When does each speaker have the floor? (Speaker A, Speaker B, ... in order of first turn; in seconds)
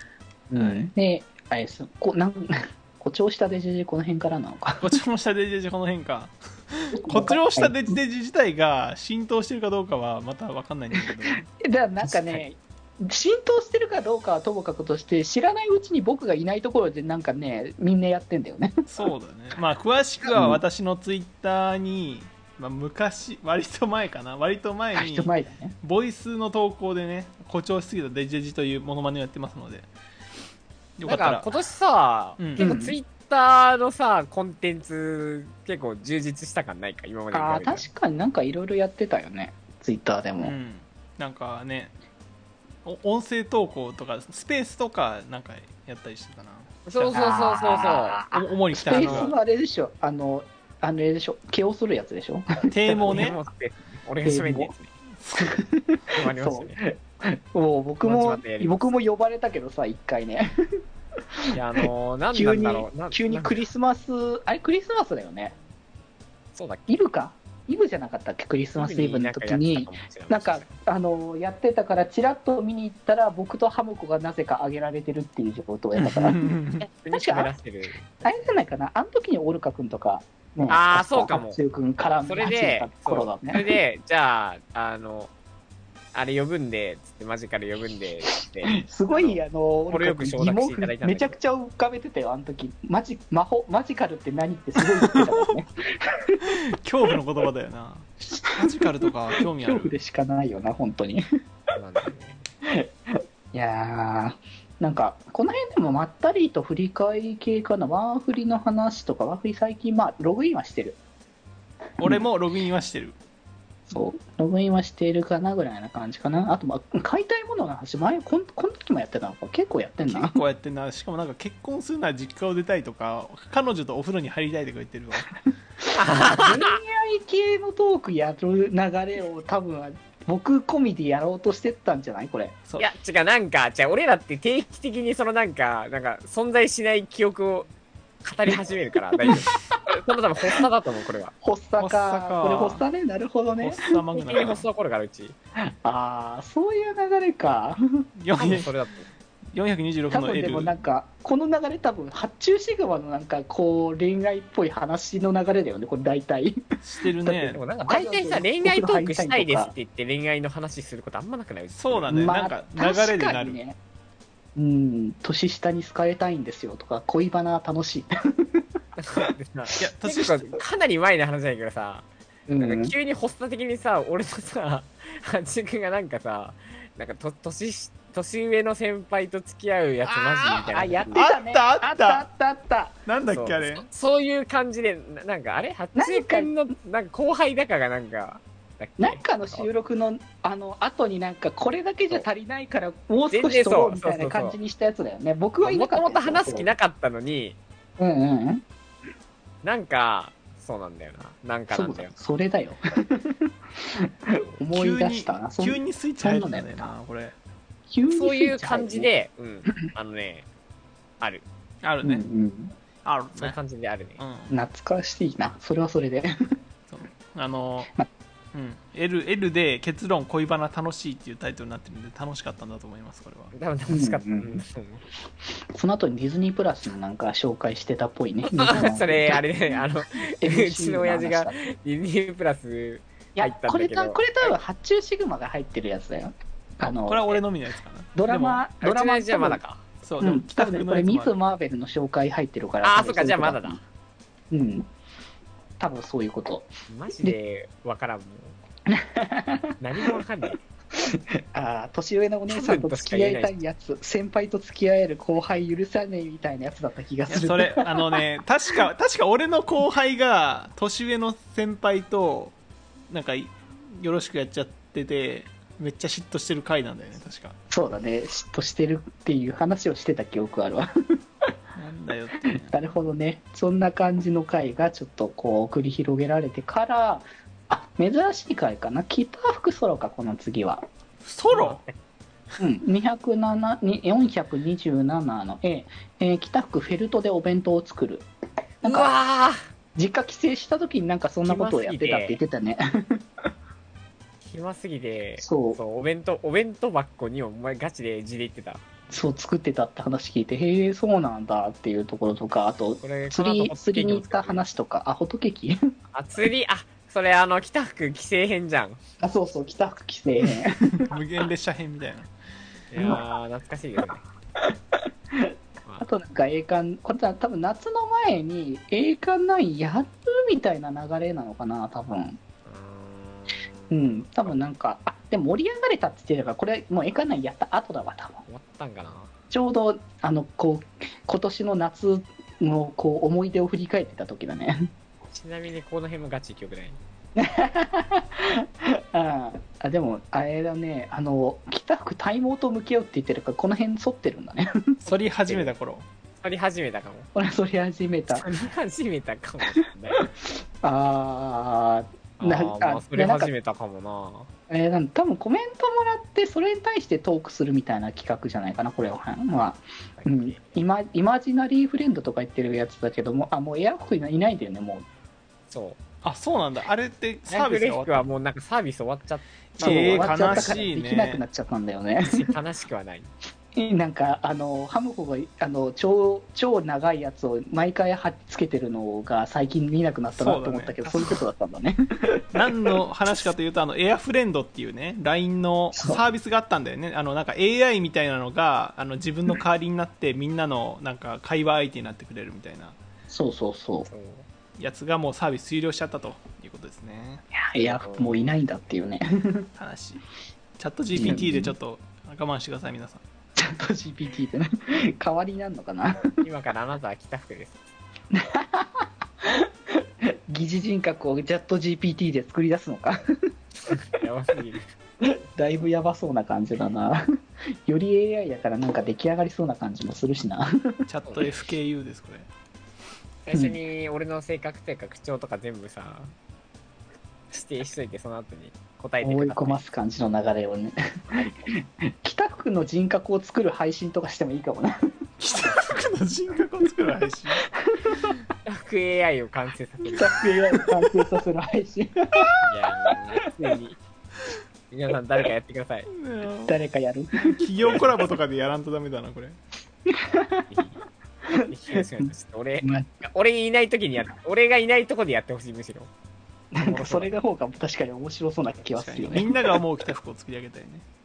Speaker A: 0.5-5.0, 6.9-7.9, 11.6-18.9, 20.2-20.6, 25.0-25.7, 32.6-33.0, 37.3-40.5, 47.1-53.3, 54.2-54.7, 55.4-60.5, 61.5-65.6, 66.9-76.4, 77.1-77.5, 78.2-83.7, 88.7-96.4, 98.4-101.2, 102.7-111.0, 113.9-120.4, 126.1-132.6, 139.2-139.5, 141.4-143.9, 145.6-147.8, 150.1-156.6, 157.2-159.7, 162.1-163.8, 164.6-168.6, 172.5-172.9, 180.7-183.0, 185.9-186.5, 189.0-196.7, 198.0-198.6, 201.7-206.9, 207.9-209.1, 212.0-212.7, 214.5-216.3, 223.9-224.6, 225.7-231.6, 233.3-237.4, 238.2-239.6, 240.2-243.8, 244.5-244.9, 245.8-247.4, 248.9-250.1, 250.9-258.8, 267.7-270.9, 272.5-280.8, 282.6-288.3, 288.8-289.1, 289.9-293.5, 295.4-295.8, 299.1-305.8, 309.2-311.0, 313.0-313.2, 314.6-322.4, 323.9-328.4, 329.5-334.8, 337.4-345.0, 347.4-348.5, 350.4-353.5, 354.7-365.1, 369.8-372.5, 373.8-383.0, 385.9-386.2, 393.3-394.1, 397.6-399.7, 401.1-401.8, 403.6-406.3, 408.3-413.2, 415.2-417.2, 417.9-421.0, 423.5-423.8, 429.2-435.0, 437.8-438.4, 440.1-442.6, 446.7-448.1, 450.1-450.7, 451.5-452.3, 452.8-453.1, 456.7-459.6
Speaker B: 0.6-0.9, 4.8-11.4, 12.0-12.4, 18.9-25.3, 25.8-29.9, 31.0-31.5, 32.4-32.7, 40.4-41.9, 42.9-47.3, 48.3-49.3, 52.7-53.4, 55.2-55.6, 76.0-76.9, 95.0-95.5, 96.4-100.0, 112.0-113.2, 120.1-125.4, 141.8-142.8, 143.6-144.7, 148.2-148.7, 149.5-150.8, 156.8-157.6, 161.8-163.6, 169.8-170.6, 180.1-182.3, 183.1-183.9, 204.7-207.3, 211.8-212.2, 213.1-213.6, 214.2-214.5, 216.9-217.9, 218.5-223.5, 236.9-238.6, 240.0-241.3, 257.3-262.6, 263.1-267.6, 271.8-272.7, 281.2-281.8, 310.8-312.3, 345.1-346.1, 366.2-368.3, 369.8-371.4, 380.4-381.4, 382.5-393.0, 394.8-397.4, 399.8-400.2, 400.8-403.2, 421.1-422.5, 435.4-437.6, 446.1-446.8, 447.5-449.6, 458.9-461.0
Speaker C: 31.0-37.9, 46.9-48.2, 48.9-49.3, 53.0-54.9, 56.1-56.8, 58.0-58.9, 61.5-63.6, 66.5-66.9, 68.8-70.8, 76.8-78.5, 80.7-81.6, 82.2-85.3, 86.1-91.3, 101.8-102.5, 125.9-126.8, 132.8-137.7, 138.2-141.3, 144.1-145.3, 148.4-149.1, 157.5-162.2, 169.0-172.1, 172.6-181.2, 183.3-189.7, 193.3-194.6, 195.6-197.6, 199.6-202.1, 208.1-210.5, 213.4-214.2, 223.5-225.0, 228.5-234.6, 238.8-239.8, 242.8-243.8, 246.9-248.6, 249.8-250.6, 252.5-253.6, 281.5-281.9, 288.8-289.6, 291.4-292.4, 294.4-298.8, 303.0-304.6, 306.1-309.0, 312.9-314.2, 322.6-323.6, 328.5-329.3, 335.3-337.0, 345.1-345.7, 346.4-347.3, 348.3-350.3, 352.4-354.5, 360.2-360.8, 365.7-366.0, 367.5-370.8, 372.3-373.3, 394.1-394.5, 397.8-398.5, 406.4-407.8, 413.9-414.9, 423.5-426.3, 427.5-429.8, 438.7-440.4, 442.7-444.0, 444.9-446.1, 450.7-451.0, 451.7-456.1, 456.8-457.3